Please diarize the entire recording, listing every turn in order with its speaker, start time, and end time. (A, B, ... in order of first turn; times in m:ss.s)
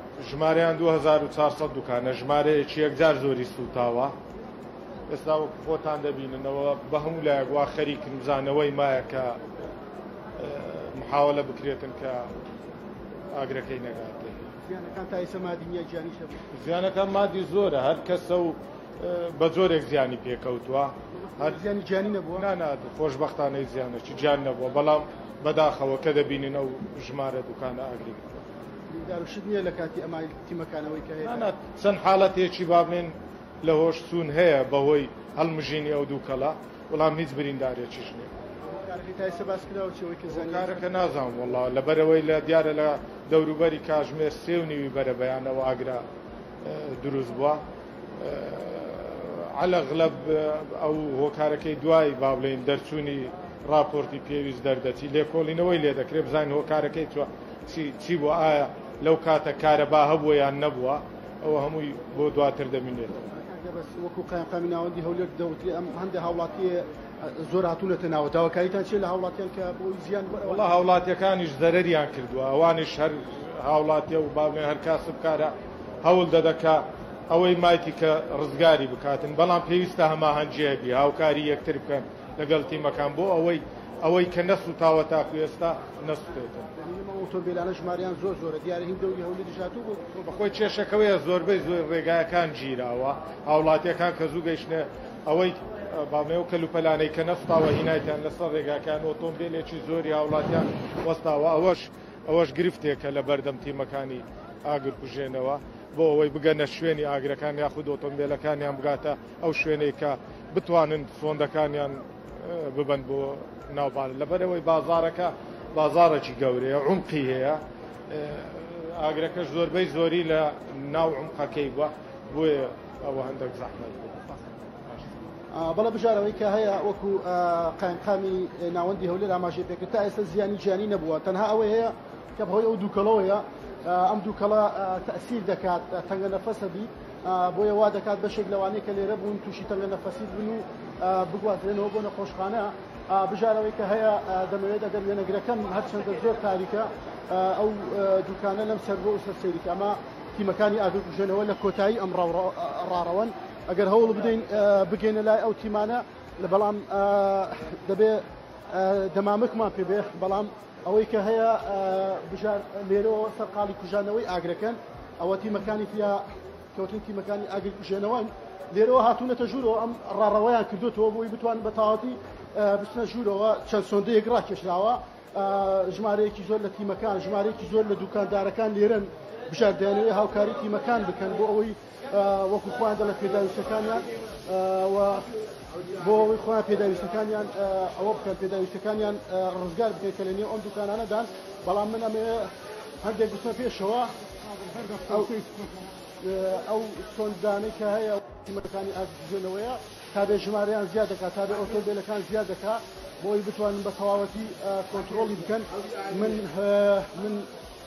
0:00.2-0:04.1 A
0:05.1-0:09.4 A
0:10.4-0:12.3 A
0:13.3-0:14.4 A
0:14.7-0:16.5 B
0:16.5-0:21.5 A
0:21.2-0:22.5 B
0:22.4-0:28.4 A
0:28.9-0:31.5 B
0:31.3-0:38.3 A
0:38.6-0:40.8 B
0:40.5-0:46.0 A
0:46.6-0:47.6 A
0:48.2-1:03.2 A
1:03.3-1:10.6 B
1:10.5-1:26.7 A
1:26.8-1:30.3 B
1:30.2-2:04.3 A
2:05.5-3:05.3 B
3:05.9-3:12.5 B
3:13.0-3:14.1 B
3:14.7-3:15.6 B
3:16.2-3:27.5 B